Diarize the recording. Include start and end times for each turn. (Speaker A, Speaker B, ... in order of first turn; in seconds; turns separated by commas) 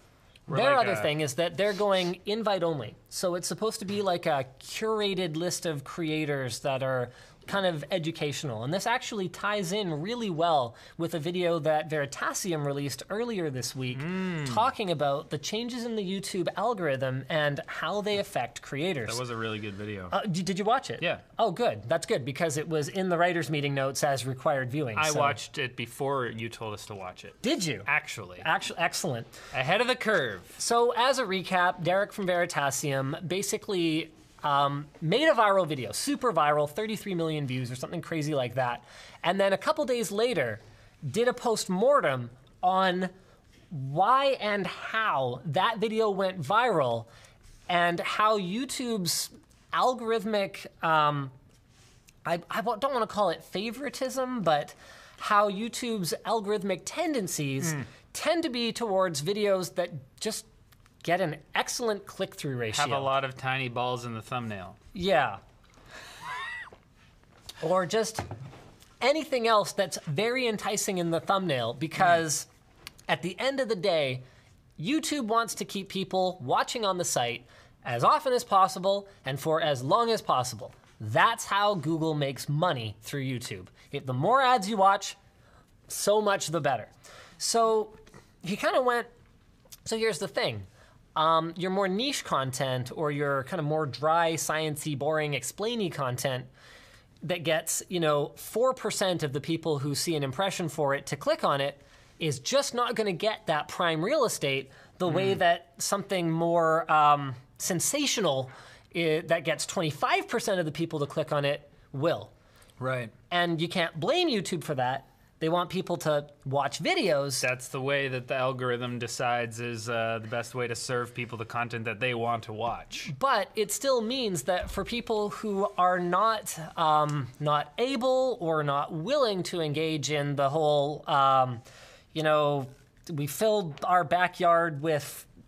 Speaker A: 0.5-1.1, Speaker B: 0.5-19.2, Speaker A: 13.9-14.7, Speaker A: 19.1-20.1, Speaker B: 20.1-25.4, Speaker A: 24.9-28.5, Speaker B: 27.4-27.9, Speaker B: 28.4-29.3, Speaker A: 29.5-30.6, Speaker B: 30.6-43.1, Speaker B: 43.7-47.1, Speaker B: 47.7-51.3, Speaker B: 52.2-60.5, Speaker B: 61.0-63.1, Speaker A: 62.7-64.8, Speaker B: 64.9-65.4, Speaker B: 67.6-68.2, Speaker B: 69.0-72.5, Speaker B: 73.1-74.2, Speaker B: 74.8-85.2, Speaker B: 85.9-89.1, Speaker B: 89.8-96.5, Speaker B: 97.2-112.3, Speaker A: 105.1-105.4, Speaker A: 112.8-113.1, Speaker B: 113.3-117.5, Speaker A: 117.4-123.1, Speaker B: 123.1-135.3